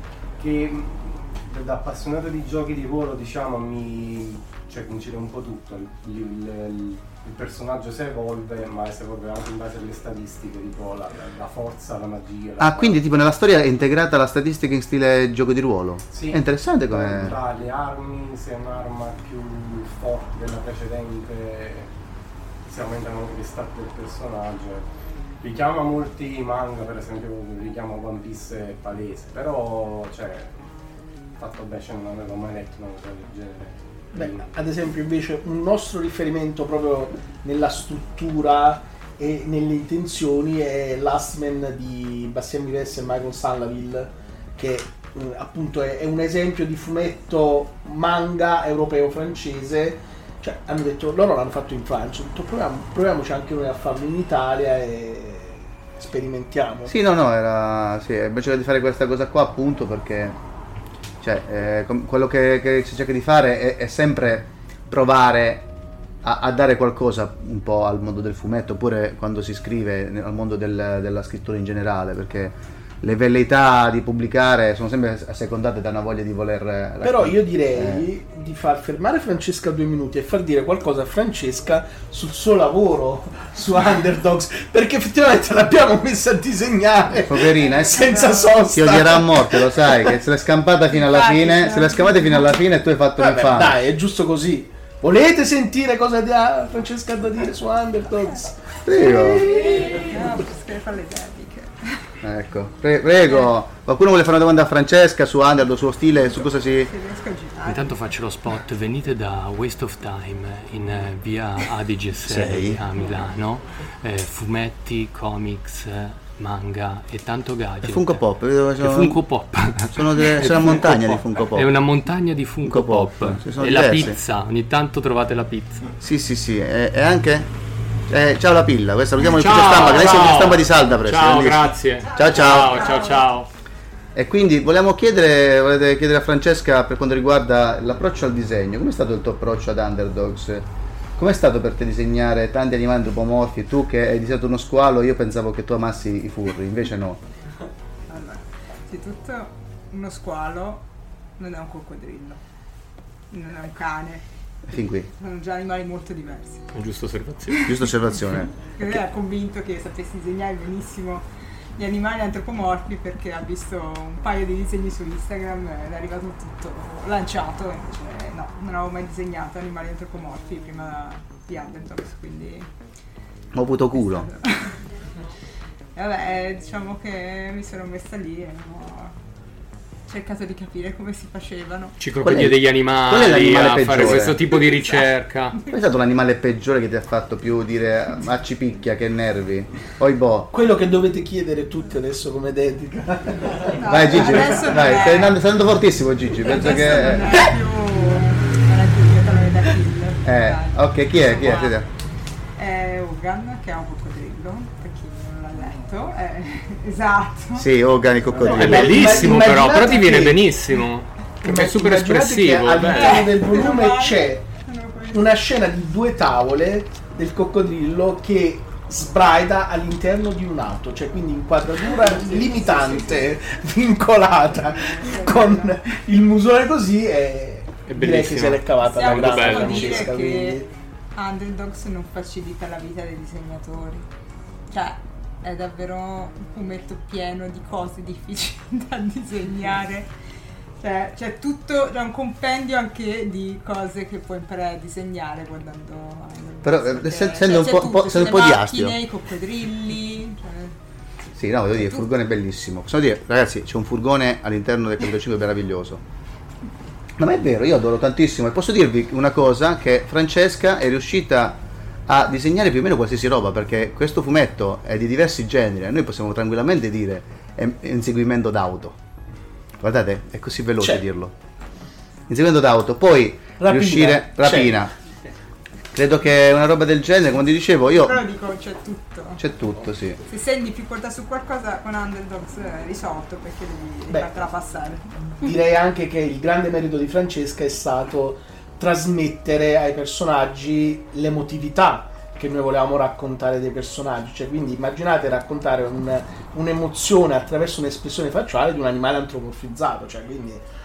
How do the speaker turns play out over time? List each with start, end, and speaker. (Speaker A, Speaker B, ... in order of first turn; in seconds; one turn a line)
Speaker A: 0.4-13.0
Speaker B: 12.6-17.4
Speaker A: 16.1-21.9
Speaker A: 22.6-24.9
Speaker A: 25.4-30.6
Speaker A: 31.4-34.5
Speaker C: 34.1-56.9
Speaker B: 56.9-60.4
Speaker B: 61.2-65.7
Speaker B: 66.2-78.1
Speaker C: 77.0-90.0
Speaker B: 87.2-88.1
Speaker D: 87.6-88.7
Speaker B: 88.7-93.8
Speaker D: 90.9-92.6
Speaker C: 93.2-100.3
Speaker B: 98.8-99.6
Speaker D: 99.4-102.0
Speaker B: 102.2-106.9
Speaker D: 103.1-103.5
Speaker D: 106.8-107.9
Speaker E: 107.7-118.2
Speaker B: 112.2-112.8
Speaker B: 117.8-119.2
Speaker E: 118.8-125.9
Speaker B: 119.9-121.7
Speaker B: 122.6-124.2
Speaker B: 126.0-127.5
Speaker B: 128.1-133.0
Speaker E: 129.2-133.5
Speaker D: 132.8-133.2
Speaker B: 134.2-140.7
Speaker B: 141.2-147.2
Speaker D: 148.1-150.8
Speaker D: 151.4-152.4
Speaker D: 153.3-154.2
Speaker B: 154.7-155.1
Speaker D: 155.2-156.7
Speaker E: 156.7-157.7
Speaker B: 157.7-158.5
Speaker D: 158.6-161.2
Speaker D: 161.8-172.7
Speaker B: 173.5-174.3
Speaker D: 173.9-174.8
Speaker D: 175.9-179.1
Speaker D: 180.1-182.0
Speaker E: 182.0-185.6
Speaker B: 182.2-184.4
Speaker D: 184.7-185.0
Speaker B: 185.7-190.5
Speaker C: 190.5-194.9
Speaker D: 193.7-195.4
Speaker B: 193.8-197.5
Speaker D: 196.3-201.8
Speaker B: 200.2-201.9
Speaker D: 202.6-207.7
Speaker B: 207.6-209.3
Speaker C: 208.3-210.4
Speaker E: 208.4-213.3
Speaker C: 211.4-214.5
Speaker D: 212.8-215.4
Speaker C: 215.1-230.7
Speaker D: 221.9-223.3
Speaker D: 224.8-225.8
Speaker E: 227.9-230.1
Speaker D: 228.8-230.6
Speaker D: 231.2-234.1
Speaker D: 234.7-240.1
Speaker D: 240.8-250.7
Speaker B: 246.6-249.0
Speaker B: 251.3-256.0
Speaker D: 251.8-252.1
Speaker B: 257.2-269.0
Speaker B: 269.8-271.3
Speaker B: 272.3-274.9
Speaker C: 273.6-274.8
Speaker B: 275.9-278.2
Speaker D: 277.9-279.4
Speaker B: 279.4-280.2
Speaker D: 280.3-285.5
Speaker C: 285.4-300.6